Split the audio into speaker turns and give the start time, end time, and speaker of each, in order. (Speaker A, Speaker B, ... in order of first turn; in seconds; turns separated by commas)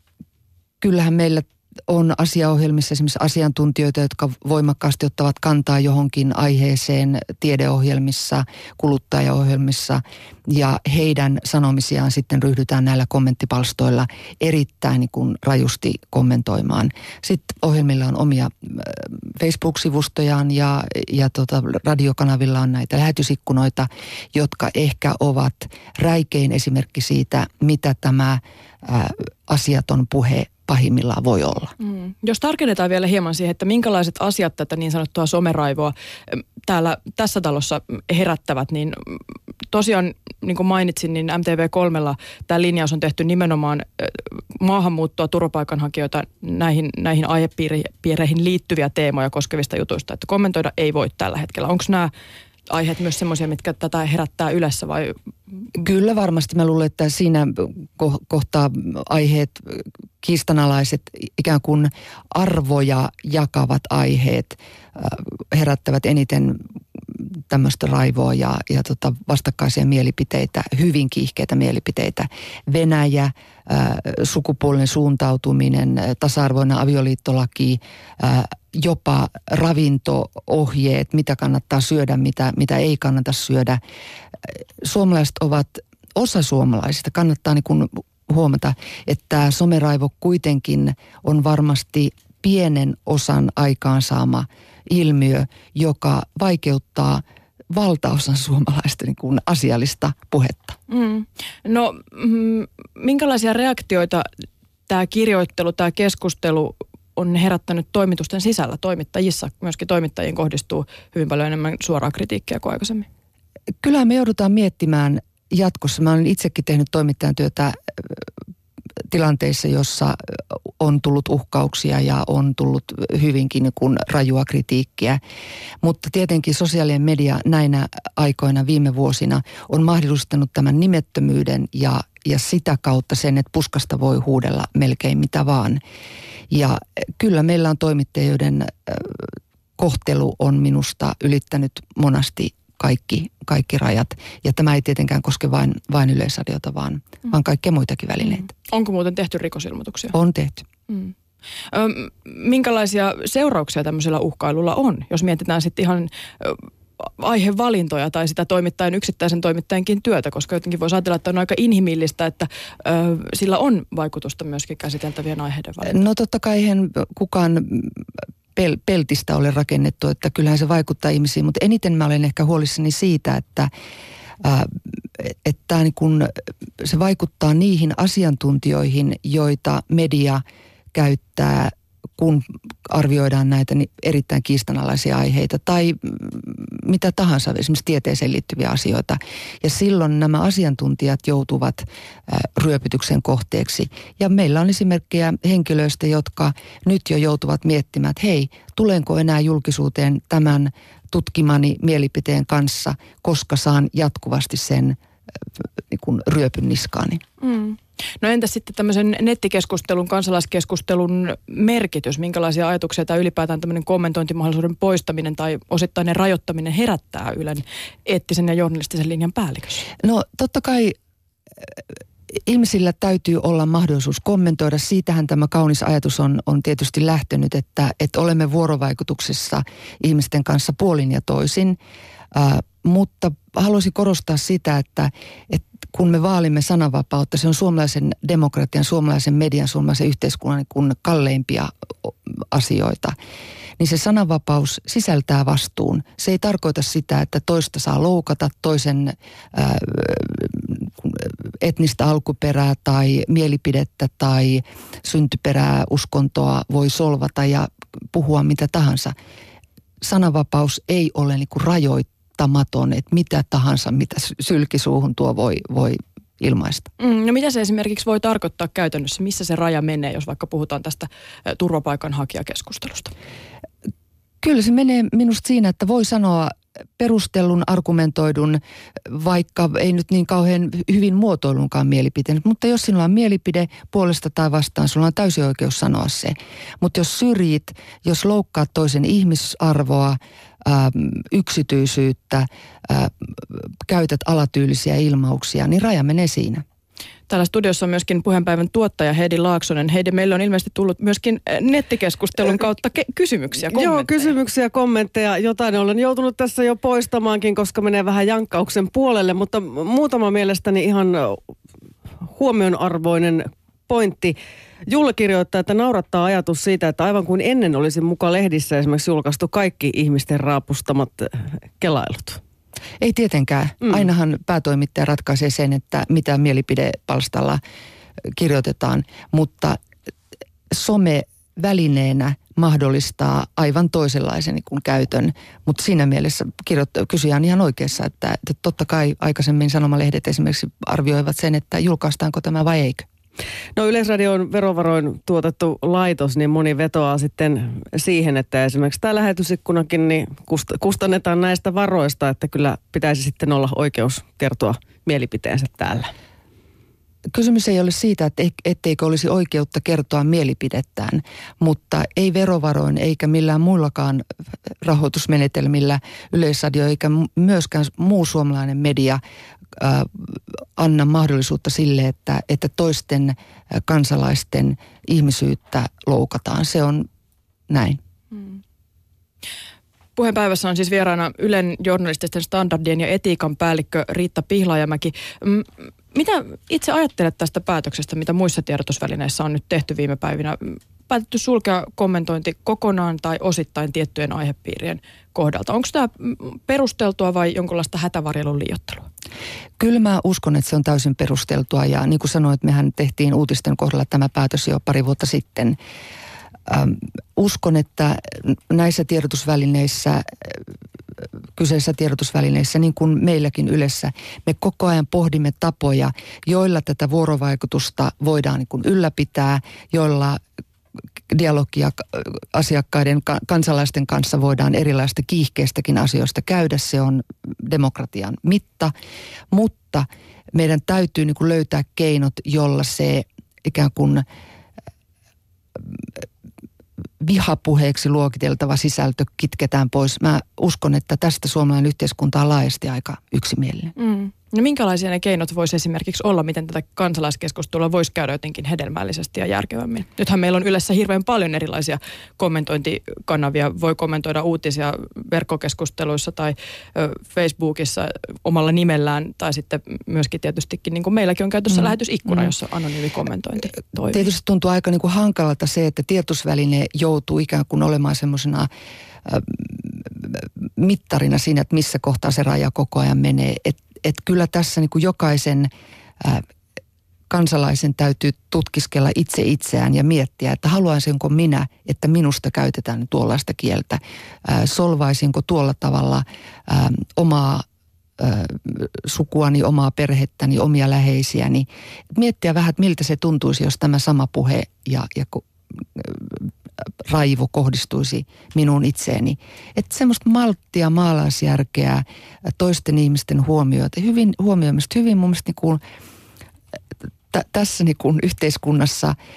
Speaker A: 0.8-31.7, Speaker B: 31.8-39.2, Speaker B: 39.7-52.1, Speaker B: 52.7-55.1, Speaker A: 55.8-66.6, Speaker A: 67.2-83.8, Speaker A: 84.4-100.8, Speaker B: 100.9-104.2, Speaker B: 104.9-113.0, Speaker A: 113.8-118.2, Speaker A: 119.1-120.2, Speaker A: 120.8-125.2, Speaker A: 125.8-135.8, Speaker A: 136.5-148.5, Speaker B: 148.7-150.1, Speaker A: 150.1-150.6, Speaker B: 151.7-166.0, Speaker A: 165.8-168.0, Speaker A: 168.6-173.7, Speaker A: 174.4-180.4, Speaker A: 180.9-205.0, Speaker A: 205.9-207.2, Speaker B: 207.4-219.8, Speaker A: 220.0-220.9, Speaker A: 222.4-231.8, Speaker A: 232.3-243.1, Speaker A: 243.8-259.1, Speaker A: 260.0-266.9, Speaker B: 267.0-273.1, Speaker A: 274.4-296.6, Speaker B: 297.3-304.3, Speaker C: 303.7-311.5, Speaker C: 312.2-314.3, Speaker C: 314.9-322.4, Speaker A: 323.0-327.6, Speaker A: 328.3-329.8, Speaker A: 330.7-343.1, Speaker C: 343.8-356.1, Speaker A: 357.3-364.2, Speaker A: 364.8-369.2, Speaker A: 369.8-377.1, Speaker A: 377.7-378.0, Speaker B: 380.1-399.1, Speaker A: 399.8-405.8, Speaker A: 406.7-410.6, Speaker A: 411.6-420.4, Speaker A: 421.3-428.9, Speaker A: 429.5-434.2, Speaker A: 437.2-443.9, Speaker B: 444.0-464.2, Speaker A: 464.1-468.7, Speaker A: 469.2-476.4, Speaker A: 477.3-487.6, Speaker A: 488.2-496.5, Speaker A: 497.0-502.0, Speaker A: 502.6-505.8, Speaker A: 507.3-509.1